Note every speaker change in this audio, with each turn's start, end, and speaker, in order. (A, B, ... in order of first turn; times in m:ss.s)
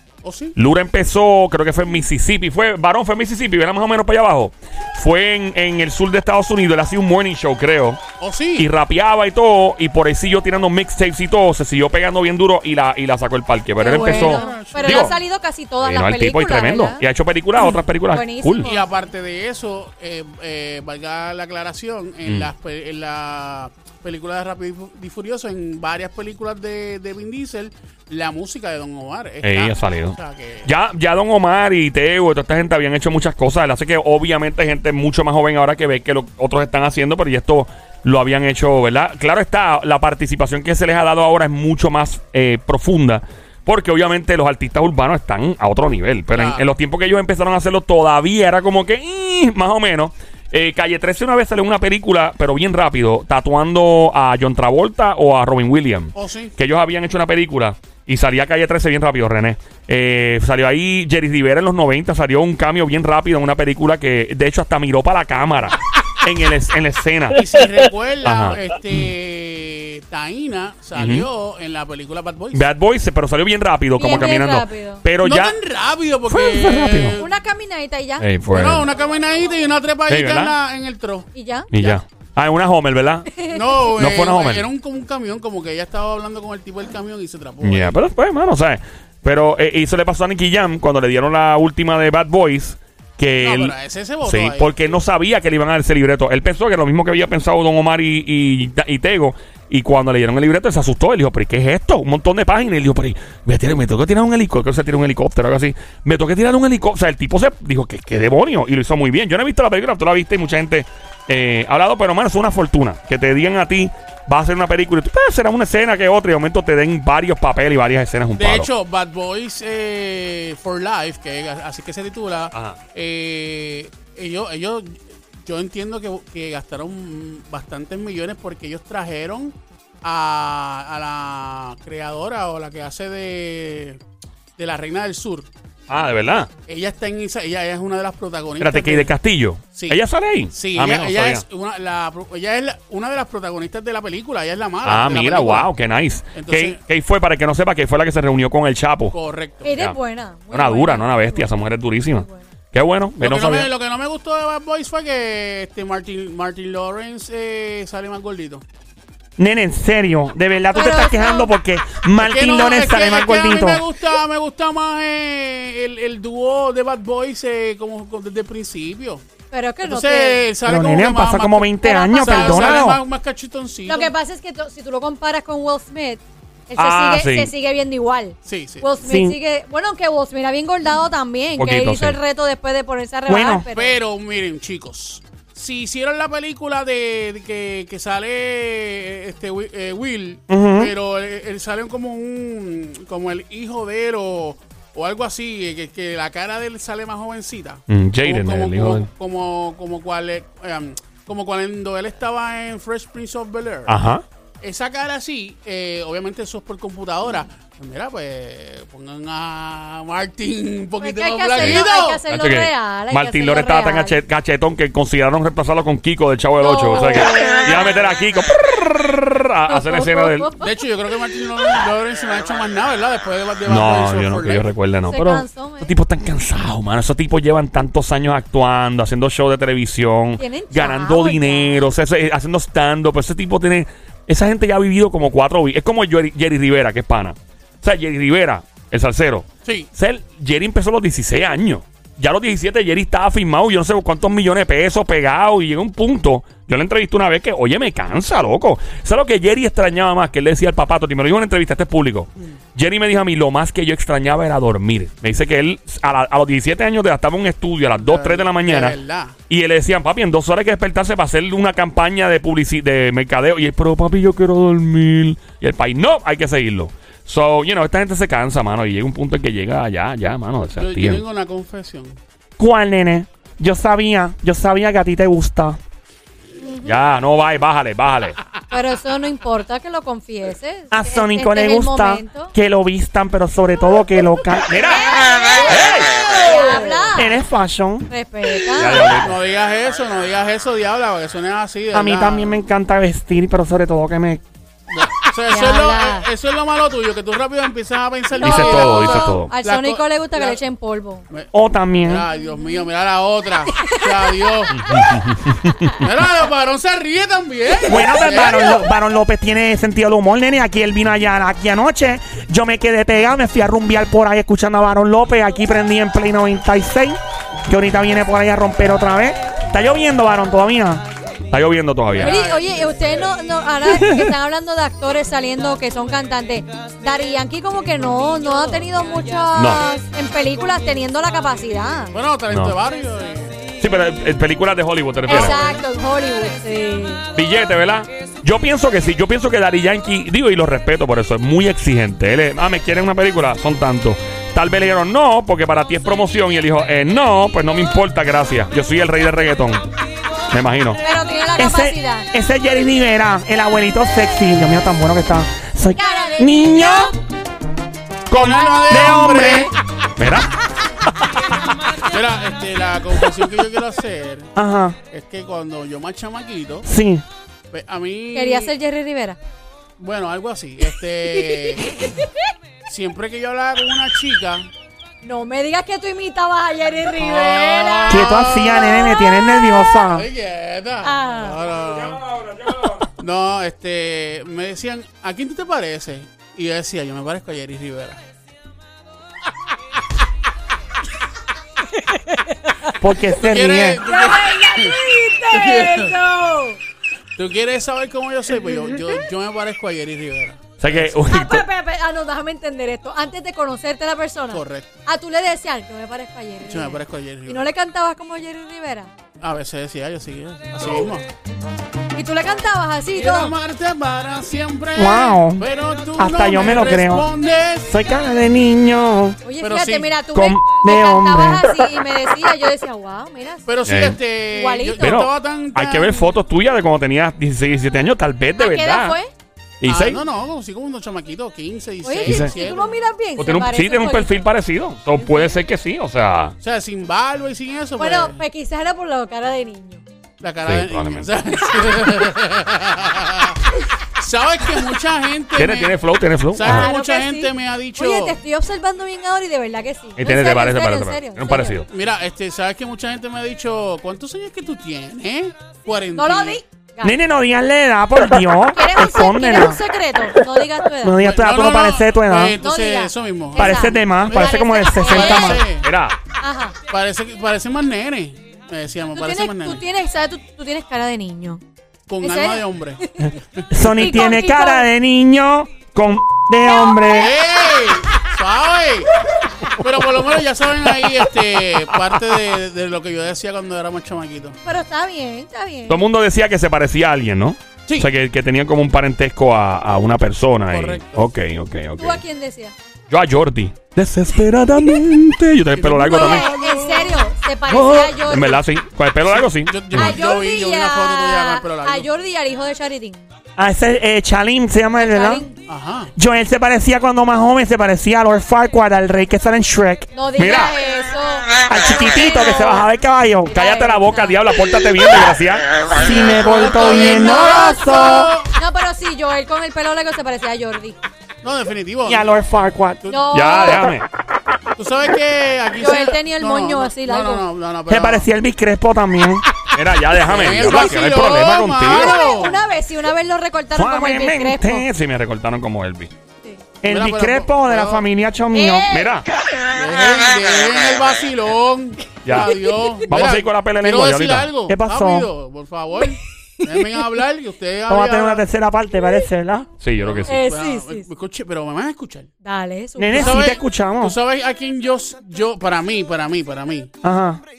0:00.2-0:00.6 A
0:00.6-0:08.0 B
0:08.2-0:08.7 A
0:08.6-0:15.2 B
0:13.8-0:15.2 A
0:13.8-0:17.0 C
0:15.8-0:18.7 B
0:18.1-0:18.9 C
0:18.6-0:30.7 A
0:22.2-0:22.5 B
0:29.4-1:07.7 B
0:46.3-0:46.7 A
0:56.2-0:56.6 A
1:07.3-1:12.7 A
1:08.2-1:09.1 B
1:11.0-1:11.3 B
1:12.5-1:15.6 B
1:14.0-1:15.0 C
1:15.2-1:17.4 A
1:16.3-1:17.2 B
1:17.2-1:18.3 C
1:18.2-1:18.9 B
1:18.5-1:22.0 A
1:20.1-1:20.6 B
1:21.3-1:21.7 C
1:21.7-1:24.7 B
1:23.3-1:23.8 C
1:23.4-1:28.0 A
1:27.6-1:58.7 B
1:33.4-1:34.7 A
1:58.4-2:14.0 A
2:02.5-2:02.8 B
2:14.6-2:15.5 A
2:15.9-2:16.5 B
2:16.7-2:19.2 A
2:18.6-2:21.4 B
2:19.7-2:25.7 A
2:24.8-2:29.2 B
2:26.3-2:26.8 A
2:29.1-2:29.7 A
2:29.6-2:32.5 C
2:30.5-2:33.7 B
2:33.2-2:38.6 A
2:39.4-2:43.8 D
2:40.7-2:41.5 C
2:42.2-2:49.2 A
2:49.5-2:50.4 C
2:49.8-2:54.1 A
2:50.7-2:53.0 D
2:51.8-2:53.0 C
2:53.9-3:04.0 C
2:56.8-2:57.5 B
2:58.4-2:58.9 A
2:59.0-2:59.4 D
3:01.6-3:02.2 B
3:03.3-3:03.6 D
3:03.7-3:24.0 A
3:10.5-3:10.9 D
3:17.9-3:19.1 B
3:23.9-3:24.2 B
3:24.6-3:32.2 A
3:31.0-3:34.2 C
3:31.6-3:40.5 B
3:36.6-3:37.9 C
3:37.4-3:37.9 A
3:39.7-3:40.7 C
3:40.6-3:44.7 A
3:43.7-4:31.2 B
3:45.1-3:46.0 C
3:50.4-3:51.9 C
3:59.6-3:59.9 A
4:18.0-4:19.4 A
4:30.8-4:32.2 A
4:32.6-4:35.8 D
4:36.6-4:37.0 C
4:36.8-4:38.4 B
4:38.7-4:42.6 C
4:40.9-4:44.8 D
4:44.7-4:45.1 B
4:44.9-4:45.8 C
4:45.6-4:46.4 B
4:46.3-4:47.4 C
4:46.5-4:47.0 A
4:47.2-4:48.1 D
4:48.1-4:49.1 C
4:48.7-4:49.4 B
4:48.8-4:52.6 A
4:51.9-4:54.4 D
4:54.9-5:00.6 A
4:55.5-4:56.3 C
4:58.3-5:01.3 C
4:58.4-4:59.5 B
5:01.5-5:02.3 D
5:02.0-5:04.9 A
5:03.7-5:05.1 C
5:04.7-5:06.0 B
5:06.0-5:08.9 A
5:07.9-5:21.0 D
5:21.5-5:22.4 B
5:22.1-5:23.3 A
5:22.2-5:32.1 C
5:23.9-5:24.3 D
5:29.5-5:29.8 B
5:32.1-5:33.7 A
5:32.5-5:32.8 B
5:33.8-5:35.6 B
5:35.3-5:37.2 C
5:37.4-5:49.9 B
5:50.5-5:51.0 B
5:51.0-5:52.3 C
5:51.6-5:57.2 D
5:56.0-5:57.2 C
5:58.3-5:59.7 A
5:58.3-5:59.7 D
6:00.2-6:00.5 B
6:02.0-6:04.5 A
6:04.6-6:05.0 D
6:05.1-6:06.9 A
6:06.8-6:07.2 D
6:07.7-6:08.7 A
6:08.3-6:09.4 C
6:10.0-6:11.9 A
6:11.3-6:12.3 C
6:12.9-6:14.7 A
6:15.2-6:19.8 C
6:17.2-6:19.2 A
6:18.1-6:20.3 D
6:20.0-6:22.2 A
6:21.0-6:21.6 C
6:21.8-6:23.1 B
6:23.2-6:28.2 A
6:32.0-6:32.9 C
6:33.0-6:34.0 D
6:33.4-6:35.0 A
6:34.0-6:36.8 C
6:35.5-6:36.2 A
6:37.4-6:41.1 A
6:40.8-6:41.6 B
6:41.0-6:49.1 C
6:44.5-6:44.9 A
6:46.6-6:47.6 A
6:49.4-6:51.2 A
6:52.2-6:53.6 C
6:53.2-6:57.9 A
6:55.0-6:57.3 D
6:57.8-6:59.4 D
6:59.4-7:03.7 C
6:59.6-7:00.2 A
7:00.3-7:01.7 D
7:03.7-7:06.3 A
7:03.9-7:04.2 B
7:04.5-7:05.2 C
7:05.0-7:09.2 B
7:08.6-7:09.3 C
7:09.8-7:10.2 B
7:09.8-7:13.0 A
7:12.0-7:14.5 C
7:12.2-7:12.5 B
7:13.4-7:16.6 B
7:15.2-7:15.5 C
7:16.6-7:18.4 A
7:18.0-7:20.0 C
7:20.4-7:28.4 A
7:20.6-7:21.3 B
7:25.6-7:26.9 B
7:26.6-7:31.8 C
7:30.2-7:31.9 B
7:31.9-7:36.6 A
7:36.1-7:37.2 C
7:37.0-7:39.8 D
7:38.7-7:41.2 C
7:41.0-7:42.6 D
7:41.2-7:45.9 A
7:42.6-7:45.7 C
7:43.6-7:45.6 D
7:45.8-7:46.2 B
7:46.4-7:46.8 C
7:46.9-7:49.8 A
7:49.1-7:51.6 C
7:52.1-7:53.0 A
7:52.2-7:54.9 C
7:53.7-7:57.4 D
7:56.6-7:57.2 C
7:57.0-7:59.1 A
7:59.7-8:04.6 A
8:04.6-8:06.0 C
8:05.9-8:12.2 B
8:10.7-8:11.3 A
8:12.0-8:12.7 C
8:13.1-8:16.5 B
8:15.8-8:17.3 A
8:16.0-8:18.6 C
8:17.7-8:20.2 B
8:19.2-8:22.1 A
8:19.9-8:23.2 C
8:23.6-8:25.5 D
8:25.0-8:25.6 C
8:25.7-8:26.1 A
8:26.2-8:30.1 D
8:30.1-8:31.5 C
8:30.4-8:30.8 B
8:31.7-8:33.5 D
8:32.1-8:32.8 C
8:33.5-8:34.4 C
8:33.5-8:35.8 B
8:35.9-8:38.3 D
8:36.0-8:38.5 A
8:36.8-8:37.8 C
8:38.6-8:41.0 C
8:41.4-8:42.4 A
8:42.1-8:43.0 D
8:43.1-8:43.9 C
8:43.3-8:44.1 B
8:44.8-8:48.3 A
8:45.8-8:47.4 C
8:47.9-8:49.4 D
8:49.7-8:52.2 B
8:50.1-8:52.6 A
8:51.8-8:54.9 C
8:53.8-8:54.6 D
8:54.5-8:56.1 B
8:56.8-8:58.9 D
8:56.9-8:58.1 A
8:58.5-8:59.1 C
8:58.9-8:59.3 B
8:59.7-9:08.4 A
9:02.2-9:04.5 B
9:04.7-9:05.3 D
9:06.0-9:07.0 C
9:07.9-9:09.7 D
9:09.8-9:10.4 B
9:10.0-9:12.3 A
9:10.3-9:11.1 C
9:12.4-9:13.4 C
9:13.0-9:14.2 D
9:13.1-9:16.9 A
9:17.0-9:17.4 D